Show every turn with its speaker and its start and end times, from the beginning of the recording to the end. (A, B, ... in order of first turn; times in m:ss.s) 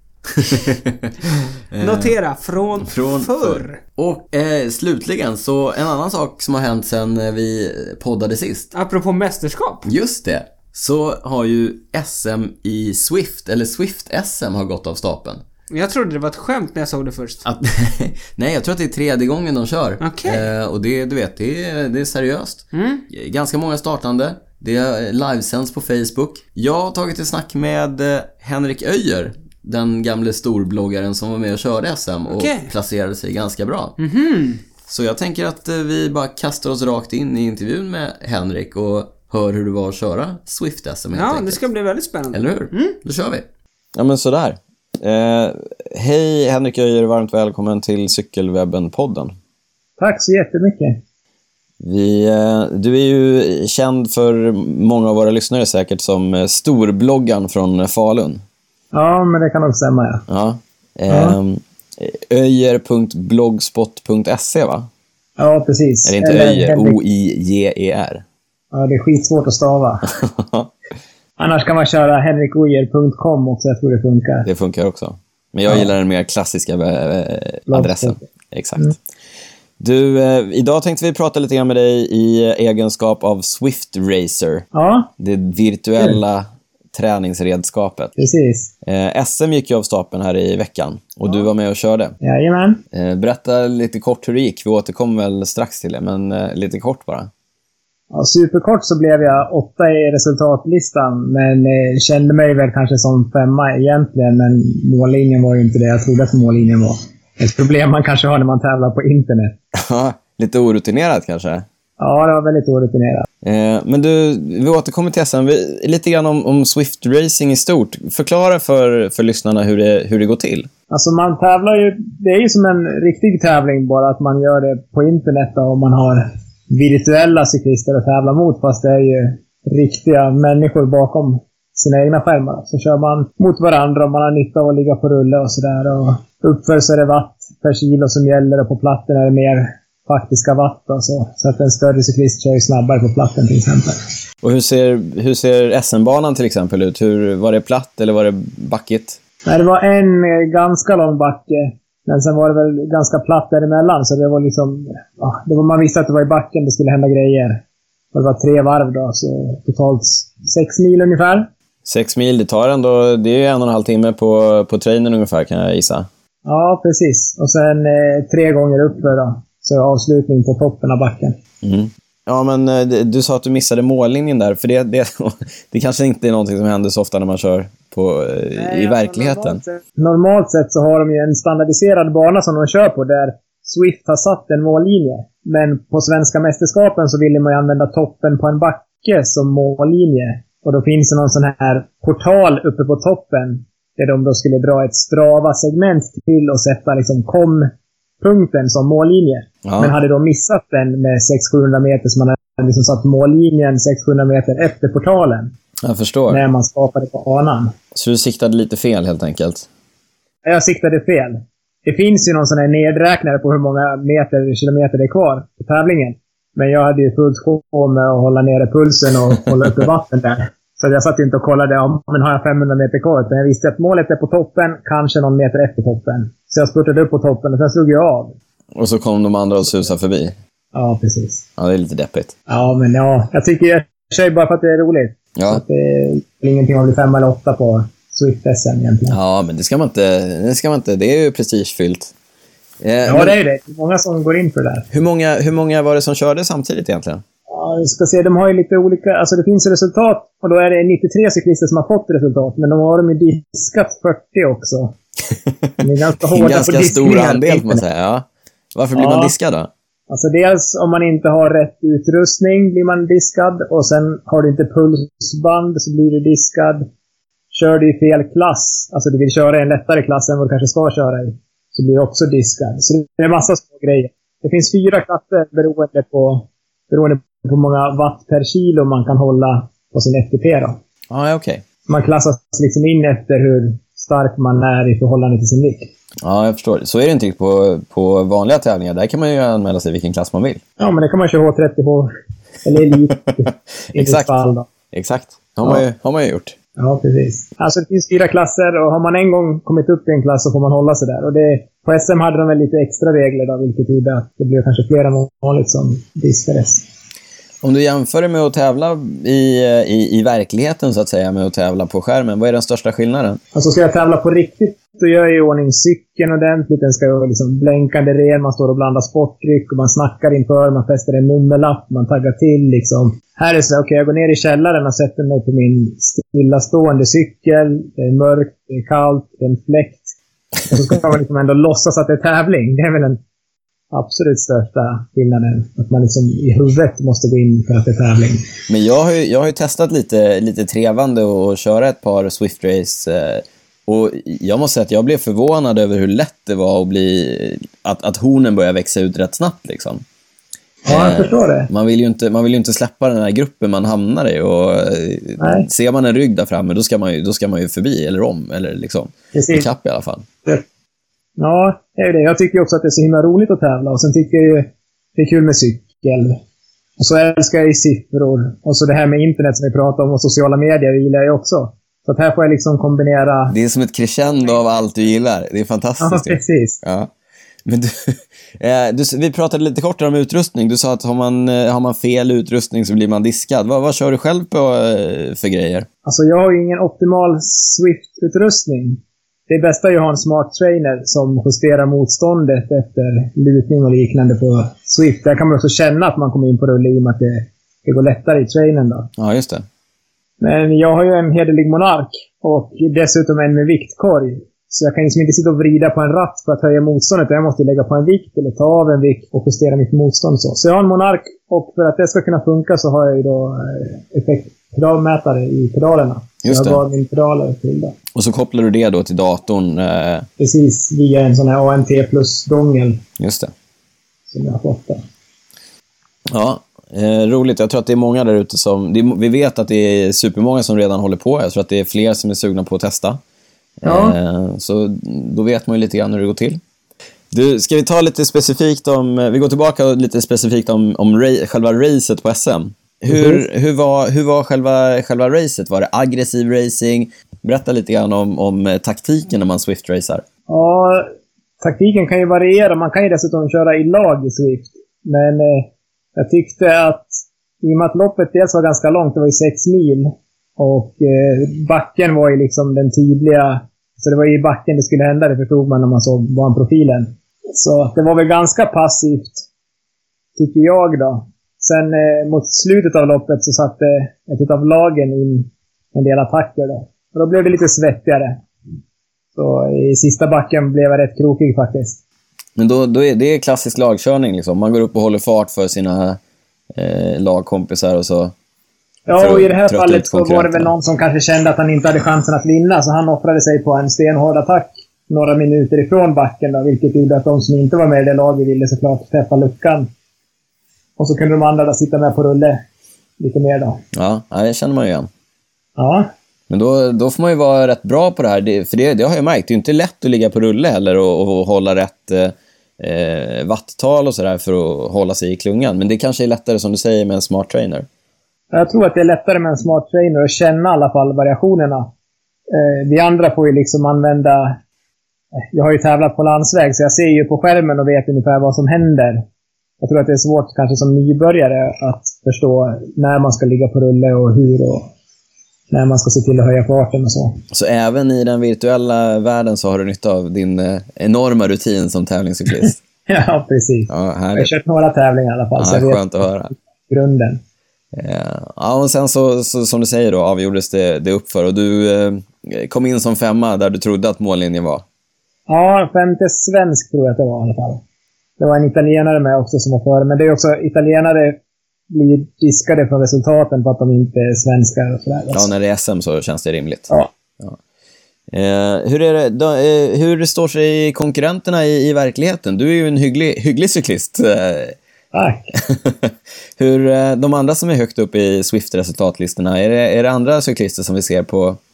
0:00.2-0:02.1 A
0:01.8-0:03.8 B
0:02.8-0:08.7 A
0:08.7-0:09.9 B
0:09.8-0:15.4 A
0:15.7-0:17.4 B
0:17.4-0:34.0 A
0:20.0-0:20.4 B
0:22.7-0:23.0 B
0:32.3-0:32.7 B
0:34.0-0:34.6 B
0:34.9-0:41.6 A
0:41.1-0:43.0 B
0:42.3-0:49.3 A
0:50.0-0:51.0 C
0:51.8-0:58.4 A
0:58.9-1:00.2 C
1:00.3-1:04.9 A
1:01.1-1:01.4 C
1:05.4-1:07.0 C
1:06.0-1:08.2 A
1:08.7-1:10.1 C
1:10.1-1:10.7 A
1:11.4-1:14.5 C
1:14.4-1:19.0 A
1:17.7-1:18.2 C
1:19.8-1:24.6 A
1:24.7-1:25.1 C
1:25.2-1:28.1 A
1:28.2-1:28.7 C
1:28.8-1:32.1 A
1:32.2-1:32.8 C
1:32.9-1:37.3 A
1:38.1-1:49.6 C
1:49.7-1:51.6 A
1:52.0-1:53.3 C
1:53.4-2:00.7 A
2:00.9-2:24.0 C
2:24.4-2:29.2 A
2:29.4-2:37.6 C
2:38.1-2:41.5 C
2:41.8-2:46.1 A
2:46.4-2:51.4 C
2:51.6-2:59.6 A
2:58.5-3:25.5 C
3:19.6-3:19.9 A
3:25.8-3:26.4 A
3:26.3-3:27.7 C
3:27.9-3:29.7 A
3:30.4-3:48.4 C
3:48.7-3:50.3 A
3:50.7-3:51.4 C
3:51.6-3:52.3 A
3:52.5-3:59.2 C
3:55.4-3:55.6 A
3:59.1-4:02.1 A
4:02.8-4:03.4 A
4:03.0-4:04.9 C
4:04.9-4:07.2 A
4:07.5-4:15.0 C
4:15.8-4:17.8 C
4:16.3-4:19.7 A
4:18.9-4:19.3 C
4:20.1-4:26.9 C
4:27.5-4:40.8 C
4:41.1-4:41.6 A
4:41.9-4:45.9 C
4:46.2-4:50.6 A
4:50.8-4:52.1 C
4:52.6-4:54.7 C
4:53.9-4:54.3 A
4:54.9-4:56.6 A
4:56.8-5:06.8 C
5:07.6-5:13.4 A
5:13.5-5:30.1 C
5:30.7-5:33.2 C
5:33.9-5:38.5 C
5:38.7-5:50.0 A
5:50.8-5:51.7 C
5:50.8-6:00.2 A
5:55.4-5:55.6 C
5:59.3-5:59.6 C
6:01.4-6:06.4 C
6:07.0-6:13.5 C
6:13.5-6:17.1 A
6:16.0-6:16.8 C
6:17.6-6:25.8 A
6:26.0-6:39.1 C
6:39.2-6:39.6 A
6:40.4-6:58.0 C
6:56.4-6:56.8 A
6:58.1-7:00.2 A
7:00.4-7:03.0 C
7:03.2-7:03.5 A
7:04.3-7:05.0 C
7:06.3-7:13.2 A
7:13.8-7:16.6 A
7:13.8-7:14.2 C
7:17.3-7:30.2 A
7:23.1-7:23.4 C
7:30.5-7:31.1 C
7:31.6-7:49.4 C
7:50.4-7:58.4 C
7:59.3-8:02.0 C
8:02.6-8:06.2 A
8:06.7-8:08.3 A
8:09.1-8:19.9 C
8:09.1-8:10.7 A
8:21.0-8:22.6 C
8:23.2-8:23.8 C
8:23.9-8:25.1 A
8:25.8-8:26.1 C
8:26.5-8:37.8 A
8:38.5-8:41.9 C
8:42.5-8:44.6 C
8:45.5-8:49.2 C
8:49.8-8:54.9 C
8:55.7-8:57.4 C
8:57.5-9:02.8 A
9:03.1-9:07.4 C
9:03.9-9:04.5 A
9:05.6-9:06.5 A
9:07.9-9:14.8 A
9:15.5-9:17.8 C
9:18.4-9:21.4 C
9:21.9-9:25.4 C
9:25.3-9:26.9 A
9:28.3-9:34.8 A
9:35.1-9:35.5 C
9:35.5-9:41.6 A